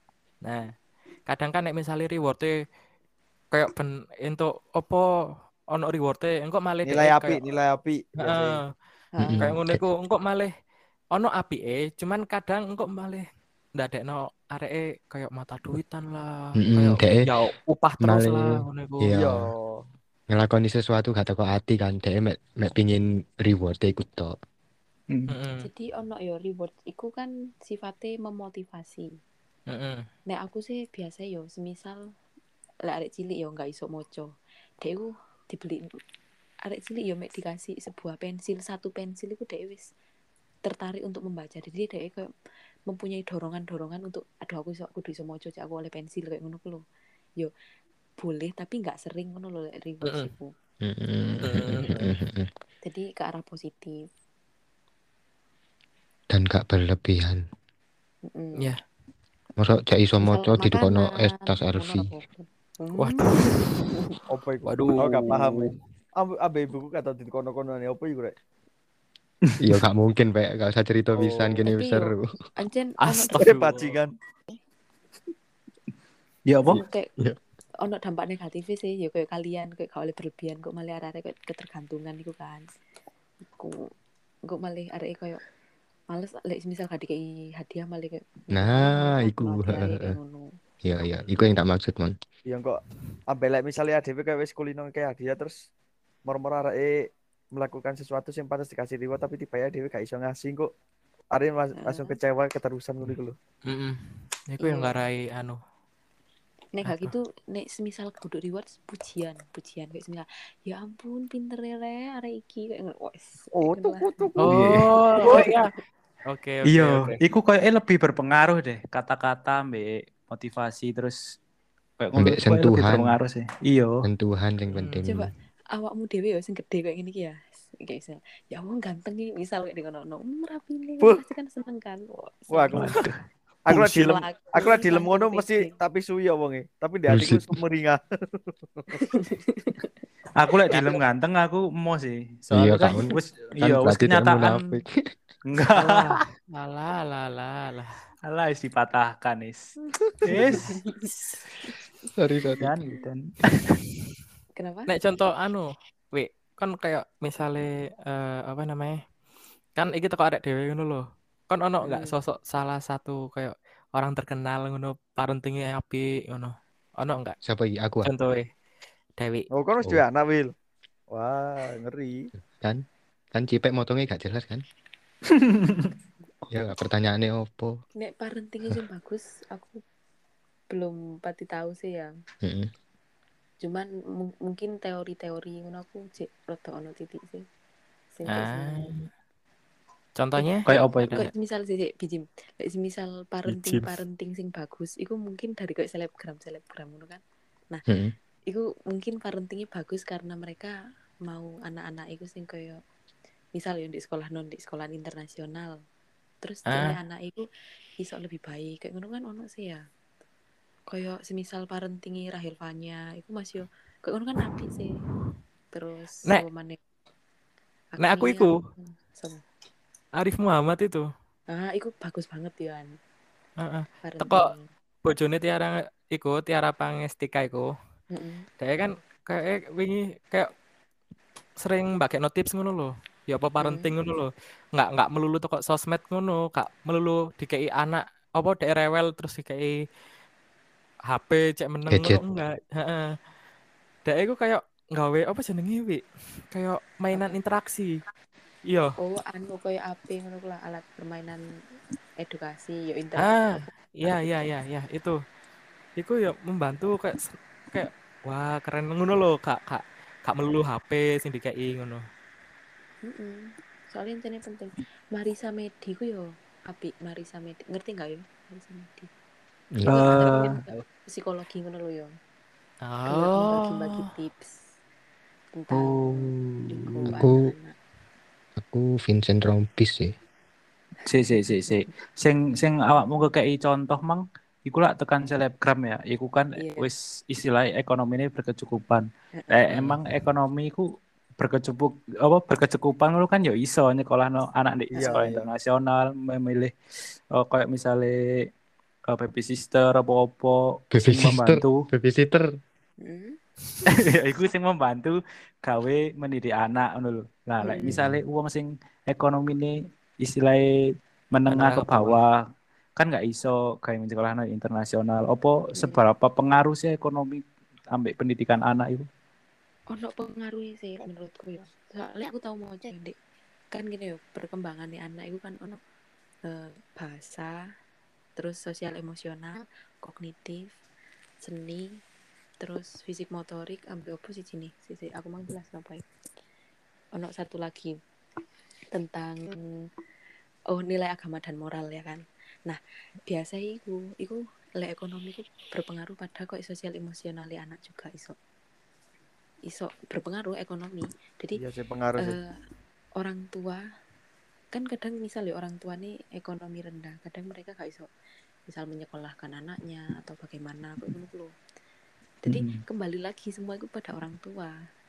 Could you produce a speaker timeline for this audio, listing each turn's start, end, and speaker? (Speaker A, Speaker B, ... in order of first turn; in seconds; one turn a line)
Speaker A: 0.4-0.7
Speaker A: 1.3-2.5
Speaker A: 3.5-5.1
Speaker A: 5.7-7.4
Speaker B: 6.8-8.6
Speaker A: 8.2-8.7
Speaker C: 9.2-9.5
Speaker D: 9.2-9.8
Speaker A: 9.4-10.5
Speaker A: 11.1-13.2
Speaker A: 13.8-19.2
Speaker D: 16.6-17.2
Speaker D: 18.0-19.4
Speaker B: 19.1-19.8
Speaker D: 20.3-24.3
Speaker A: 25.3-25.7
Speaker C: 25.6-29.1
Speaker A: 29.7-30.1
Speaker C: 30.3-32.0
Speaker C: 32.8-35.8
Speaker C: 36.6-39.9
Speaker C: 40.6-42.3
Speaker C: 42.9-46.8
Speaker C: 48.2-50.5
Speaker D: 50.8-52.5
Speaker A: 51.4-51.9
Speaker C: 52.8-54.1
Speaker D: 56.3-57.4
Speaker C: 58.3-58.7
Speaker D: 59.6-62.1
Speaker C: 60.2-64.2
Speaker A: 63.0-63.9
Speaker B: 64.3-68.3
Speaker A: 64.6-65.7
Speaker D: 69.6-72.2
Speaker B: 71.1-71.6
Speaker C: 71.6-73.6
Speaker A: 73.2-73.6
Speaker B: 73.3-74.1
Speaker E: 73.4-73.7
Speaker E: 76.5-76.8
Speaker C: 76.7-77.2
Speaker C: 77.8-82.7
Speaker C: 84.5-85.4
Speaker C: 86.1-90.5
Speaker D: 88.5-90.1
Speaker D: 90.8-92.1
Speaker B: 92.5-95.6
Speaker B: 96.2-100.7
Speaker B: 101.3-103.3
Speaker C: 101.8-102.2
Speaker A: 103.7-105.6
Speaker C: 104.6-105.0
Speaker C: 106.7-114.3
Speaker A: 106.8-107.1
Speaker B: 113.6-114.8
Speaker A: 114.4-115.7
Speaker D: 114.5-114.8
Speaker C: 115.2-115.8
Speaker A: 116.3-117.2
Speaker E: 116.7-121.2
Speaker E: 122.0-124.0
Speaker D: 122.2-123.1
Speaker D: 124.0-125.3
Speaker A: 124.7-125.0
Speaker C: 125.0-132.8
Speaker B: 132.5-133.0
Speaker E: 132.7-133.2
Speaker B: 133.7-138.8
Speaker C: 133.7-135.7
Speaker D: 137.1-137.5
Speaker C: 138.9-139.9
Speaker E: 140.3-144.7
Speaker D: 142.5-144.9
Speaker E: 145.5-146.2
Speaker A: 145.7-148.0
Speaker E: 148.2-149.7
Speaker E: 150.2-151.3
Speaker C: 150.7-151.1
Speaker D: 152.2-152.7
Speaker E: 152.6-153.7
Speaker C: 154.6-155.0
Speaker A: 154.9-159.0
Speaker A: 159.8-167.3
Speaker C: 161.8-162.2
Speaker D: 167.4-168.1
Speaker A: 168.0-168.5
Speaker A: 169.2-169.4
Speaker B: 169.5-170.5
Speaker B: 171.1-172.3
Speaker D: 172.6-174.6
Speaker E: 175.3-175.9
Speaker D: 176.5-177.8
Speaker C: 178.0-179.8
Speaker C: 180.7-182.1
Speaker D: 182.4-182.7
Speaker C: 183.6-187.4
Speaker C: 188.1-188.9
Speaker A: 188.3-189.1
Speaker A: 190.2-191.3
Speaker C: 190.3-197.8
Speaker E: 190.7-191.3
Speaker D: 193.4-193.9
Speaker D: 197.9-198.1
Speaker C: 198.5-200.7
Speaker C: 201.2-202.8
Speaker C: 203.5-205.7
Speaker C: 206.4-207.4
Speaker A: 206.7-207.0
Speaker C: 208.0-209.8
Speaker C: 210.9-215.1
Speaker C: 215.7-216.8
Speaker C: 217.9-219.4
Speaker A: 218.0-218.6
Speaker A: 220.2-221.0
Speaker C: 221.5-222.9
Speaker A: 223.6-224.5
Speaker C: 224.0-224.6
Speaker A: 225.0-227.7
Speaker C: 228.1-228.5
Speaker A: 228.6-230.5
Speaker A: 231.6-239.8
Speaker C: 233.6-233.9
Speaker A: 241.1-243.2
Speaker D: 241.9-242.2
Speaker A: 244.0-247.9
Speaker A: 248.7-248.9
Speaker C: 249.0-251.4
Speaker C: 252.2-254.5
Speaker A: 253.2-255.2
Speaker A: 256.0-262.0
Speaker C: 263.0-269.1
Speaker C: 269.9-272.1
Speaker E: 269.9-270.6
Speaker A: 272.8-274.1
Speaker C: 273.1-274.6
Speaker C: 275.5-277.8
Speaker E: 275.7-277.1
Speaker D: 277.1-277.4
Speaker D: 278.6-280.1
Speaker E: 281.1-290.9
Speaker C: 281.5-281.9
Speaker C: 286.6-286.9
Speaker E: 291.4-296.7
Speaker B: 294.9-295.5
Speaker C: 295.0-295.3
Speaker E: 297.3-298.4
Speaker E: 299.1-301.8
Speaker D: 300.9-302.5
Speaker C: 303.0-303.4
Speaker E: 303.9-310.6
Speaker C: 307.6-308.0
Speaker D: 307.9-308.2
Speaker E: 311.3-312.4
Speaker A: 311.5-312.2
Speaker E: 313.0-317.4
Speaker C: 315.7-316.0
Speaker E: 317.9-319.1
Speaker C: 319.9-323.1
Speaker C: 323.7-325.8
Speaker C: 326.4-327.6
Speaker C: 328.4-330.7
Speaker C: 331.4-331.9
Speaker C: 332.6-336.0
Speaker C: 337.1-338.0
Speaker C: 338.9-339.9
Speaker C: 340.7-348.4
Speaker C: 349.7-351.6
Speaker B: 351.6-352.4
Speaker C: 352.2-352.6
Speaker C: 353.2-353.8
Speaker C: 354.7-358.1
Speaker C: 358.7-361.5
Speaker C: 362.4-364.8
Speaker E: 362.5-362.8